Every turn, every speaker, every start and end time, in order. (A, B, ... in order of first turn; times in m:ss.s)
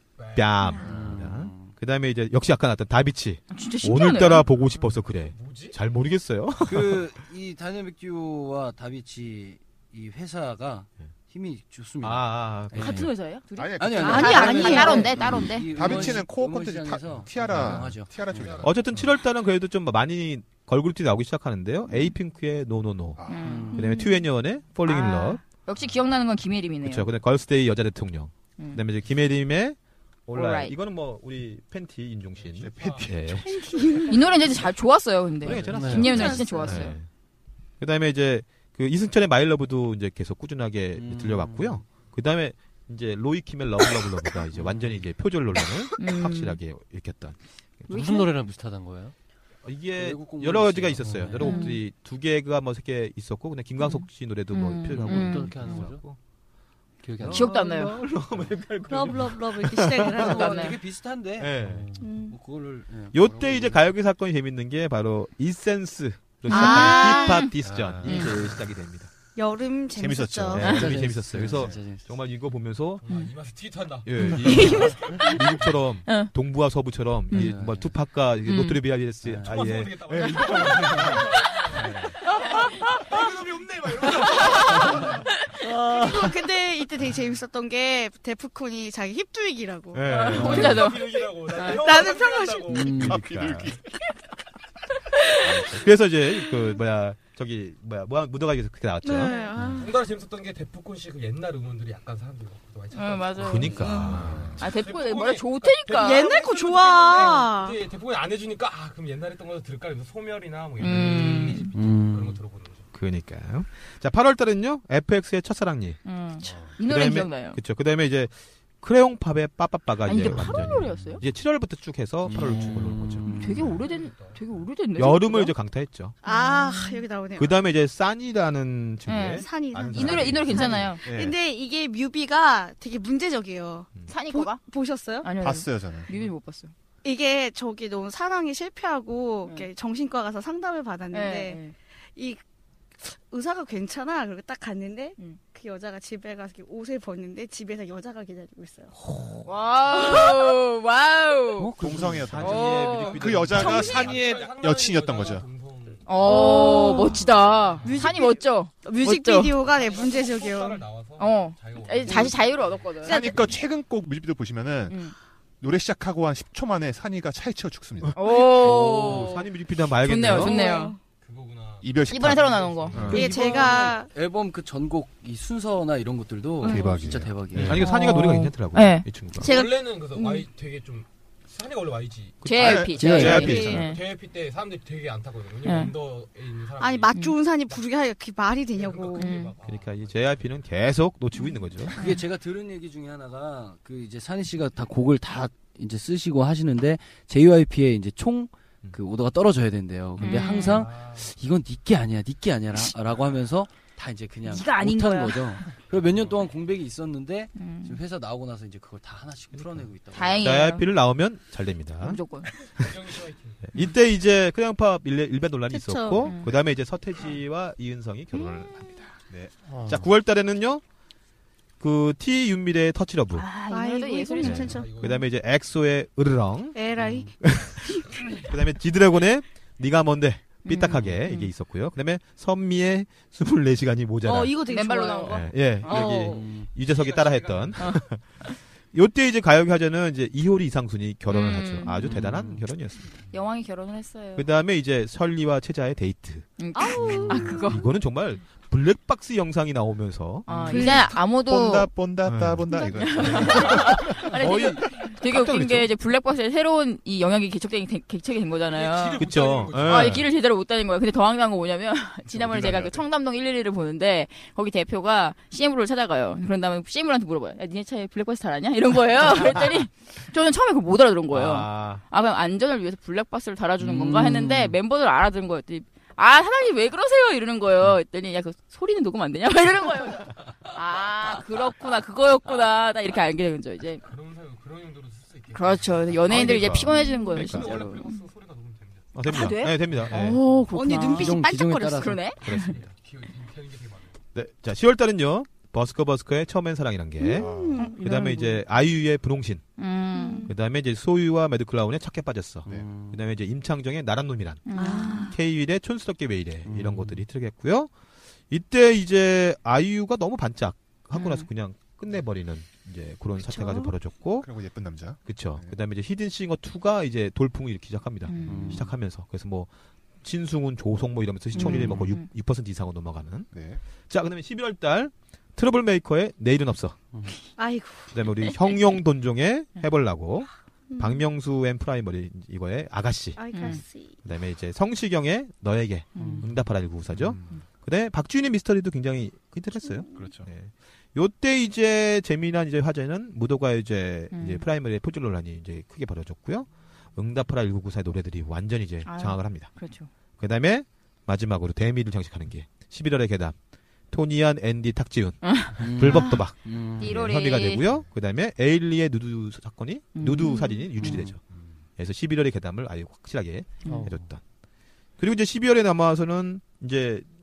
0:00.2-0:00.8 A
0:00.4-0:07.1 B
0:00.8-0:01.7 C
0:03.5-0:04.5 D
0:05.2-0:05.8 A
0:06.6-0:13.1 C
0:12.0-0:13.1 B
0:12.8-0:16.2 D
0:13.6-0:19.1 E
0:13.8-0:18.6 C
0:14.0-0:15.2 F
0:18.3-0:18.8 A
0:18.6-0:25.4 B
0:23.2-0:23.5 E
0:23.3-0:24.0 D
0:23.4-0:23.9 C
0:23.7-0:24.2 F
0:24.8-0:27.1 D
0:26.8-0:33.5 B
0:30.3-0:30.8 D
0:32.4-0:34.6 A
0:32.6-0:34.0 E
0:33.5-0:34.2 F
0:34.1-0:37.0 D
0:35.4-0:37.1 B
0:35.7-0:36.4 G
0:36.0-0:36.9 F
0:37.8-0:47.4 B
0:41.0-0:41.9 C
0:44.6-0:45.0 C
0:46.0-0:46.6 D
0:47.9-0:49.2 G
0:47.9-0:48.3 D
0:49.6-0:56.2 B
0:49.9-0:51.7 C
0:51.4-0:51.8 D
0:53.8-0:55.5 D
0:54.9-0:56.0 G
0:57.0-0:57.6 G
0:57.2-1:00.5 B
0:57.3-0:58.0 D
0:58.9-1:00.8 F
1:00.2-1:03.9 C
1:00.3-1:00.8 D
1:01.4-1:01.9 B
1:02.0-1:02.4 F
1:03.1-1:09.1 B
1:06.5-1:07.4 F
1:06.5-1:07.5 D
1:07.6-1:08.3 E
1:08.0-1:08.3 D
1:09.4-1:10.9 F
1:09.9-1:10.8 E
1:10.5-1:13.1 B
1:10.7-1:12.1 C
1:13.0-1:15.8 A
1:14.0-1:21.3 B
1:14.2-1:15.4 D
1:17.3-1:18.0 C
1:18.5-1:18.8 D
1:19.2-1:19.6 C
1:19.4-1:25.2 A
1:21.8-1:22.1 B
1:23.1-1:24.5 E
1:24.4-1:25.0 D
1:25.7-1:32.9 F
1:29.9-1:31.0 B
1:30.1-1:33.1 A
1:30.1-1:31.0 D
1:30.4-1:30.8 C
1:32.7-1:33.3 C
1:32.9-1:33.7 B
1:33.0-1:33.8 E
1:35.4-1:39.4 B
1:39.0-1:39.9 F
1:39.3-1:39.8 D
1:39.8-1:52.9 A
1:42.9-1:43.9 D
1:43.4-1:44.6 B
1:43.8-1:44.2 F
1:44.6-1:46.3 D
1:46.0-1:47.8 F
1:50.8-1:51.7 D
1:51.7-1:52.4 C
1:52.9-1:56.0 B
1:56.0-1:57.6 D
1:56.4-1:56.7 E
1:56.8-2:03.3 B
2:00.0-2:01.2 D
2:02.3-2:03.7 C
2:03.2-2:05.6 D
2:03.7-2:04.5 A
2:05.0-2:06.2 B
2:06.2-2:07.6 F
2:06.2-2:07.0 D
2:07.4-2:10.9 B
2:09.1-2:11.0 D
2:09.3-2:15.3 F
2:11.0-2:11.4 E
2:14.1-2:14.6 D
2:15.2-2:16.7 D
2:15.4-2:16.1 E
2:17.0-2:21.6 F
2:21.1-2:21.7 D
2:22.2-2:22.4 F
2:23.0-2:28.9 F
2:29.4-2:31.7 D
2:31.6-2:32.6 C
2:31.8-2:35.5 E
2:32.1-2:34.1 B
2:32.4-2:33.7 D
2:32.8-2:38.2 A
2:36.1-2:39.6 D
2:36.2-2:37.2 F
2:37.8-2:40.8 F
2:39.6-2:43.2 A
2:41.2-2:43.5 D
2:43.0-2:45.0 E
2:43.1-2:43.4 F
2:44.9-2:45.2 D
2:45.6-2:48.2 E
2:48.0-2:50.6 B
2:48.2-2:49.5 D
2:50.0-2:51.0 D
2:50.2-2:51.0 F
2:51.2-2:53.2 A
2:51.8-2:53.3 E
2:52.1-2:53.2 D
2:53.0-2:53.8 B
2:53.1-2:57.9 C
2:53.1-2:54.1 F
2:56.6-2:57.5 E
2:56.6-2:57.0 F
2:57.5-2:59.5 B
2:57.7-2:59.7 D
2:59.4-3:07.2 A
2:59.4-3:00.4 F
3:02.4-3:03.9 B
3:02.4-3:04.0 D
3:02.9-3:03.7 C
3:03.1-3:03.9 F
3:05.6-3:05.9 D
3:06.8-3:09.5 F
3:08.7-3:10.6 A
3:09.2-3:09.5 D
3:09.6-3:12.0 B
3:12.0-3:30.5 C
3:20.2-3:20.9 D
3:20.6-3:21.3 A
3:24.4-3:25.6 D
3:27.6-3:28.0 D
3:30.1-3:30.9 D
3:30.4-3:32.2 B
3:32.0-3:32.5 D
3:32.7-3:33.7 A
3:33.7-3:39.1 B
3:35.7-3:36.4 F
3:36.2-3:36.5 D
3:39.9-3:40.8 B
3:41.8-3:43.5 B
3:43.3-3:44.8 D
3:43.7-3:44.9 F
3:44.4-3:46.9 B
3:44.6-3:45.3 A
3:46.8-3:48.0 F
3:47.0-3:47.3 C
3:47.4-3:54.6 B
3:50.6-3:51.5 D
3:54.2-3:56.5 F
3:54.7-3:55.4 D
3:55.2-4:03.0 B
3:55.9-3:56.7 C
3:56.8-3:58.0 A
3:57.8-3:58.5 D
4:01.3-4:02.1 D
4:02.0-4:02.6 C
4:03.3-4:04.5 D
4:04.4-4:06.5 B
4:06.6-4:07.8 D
4:06.8-4:07.8 F
4:07.1-4:10.5 B
4:10.5-4:10.8 A
4:10.5-4:11.9 D
4:10.7-4:11.1 F
4:10.8-4:14.4 E
4:12.3-4:15.9 B
4:12.7-4:44.1 D
4:18.7-4:20.3 A
4:19.2-4:20.3 B
4:22.3-4:23.0 E
4:31.3-4:32.0 B
4:33.8-4:34.8 C
4:44.0-4:49.3 A
4:45.6-4:48.0 D
4:46.3-4:47.8 B
4:47.6-4:48.0 C
4:49.2-4:50.4 B
4:49.3-4:52.7 D
4:49.8-4:50.6 A
4:50.7-4:52.0 F
4:50.9-4:52.6 C
4:52.4-4:52.8 B
4:52.5-4:54.2 A
4:54.3-4:59.7 B
4:57.2-4:58.0 F
4:57.2-4:58.6 D
4:57.4-4:57.9 E
4:59.8-5:00.5 D
5:00.1-5:00.6 F
5:00.5-5:04.7 B
5:02.7-5:03.2 C
5:04.7-5:05.3 D
5:04.8-5:05.4 F
5:05.2-5:07.9 B
5:06.6-5:07.2 C
5:08.5-5:14.5 B
5:11.1-5:11.5 D
5:13.4-5:13.9 F
5:14.4-5:15.8 E
5:15.3-5:19.7 B
5:18.3-5:18.8 D
5:18.5-5:18.9 C
5:18.5-5:18.8 G
5:20.2-5:23.5 B
5:21.6-5:22.3 D
5:23.5-5:23.8 E
5:24.1-5:27.0 B
5:27.6-5:28.2 F
5:28.1-5:33.7 B
5:30.9-5:31.2 F
5:33.4-5:34.2 F
5:33.5-5:33.8 D
5:34.2-5:49.7 B
5:36.2-5:36.4 D
5:36.2-5:36.5 G
5:37.2-5:37.5 E
5:39.9-5:40.2 F
5:40.1-5:40.5 E
5:44.3-5:44.6 D
5:49.1-5:50.1 D
5:50.4-5:53.6 B
5:54.1-6:01.4 B
5:55.4-5:56.4 D
5:55.8-5:57.2 C
5:57.0-5:57.8 D
6:00.2-6:01.2 D
6:01.0-6:01.4 C
6:02.0-6:04.4 B
6:03.9-6:04.2 G
6:05.2-6:07.3 B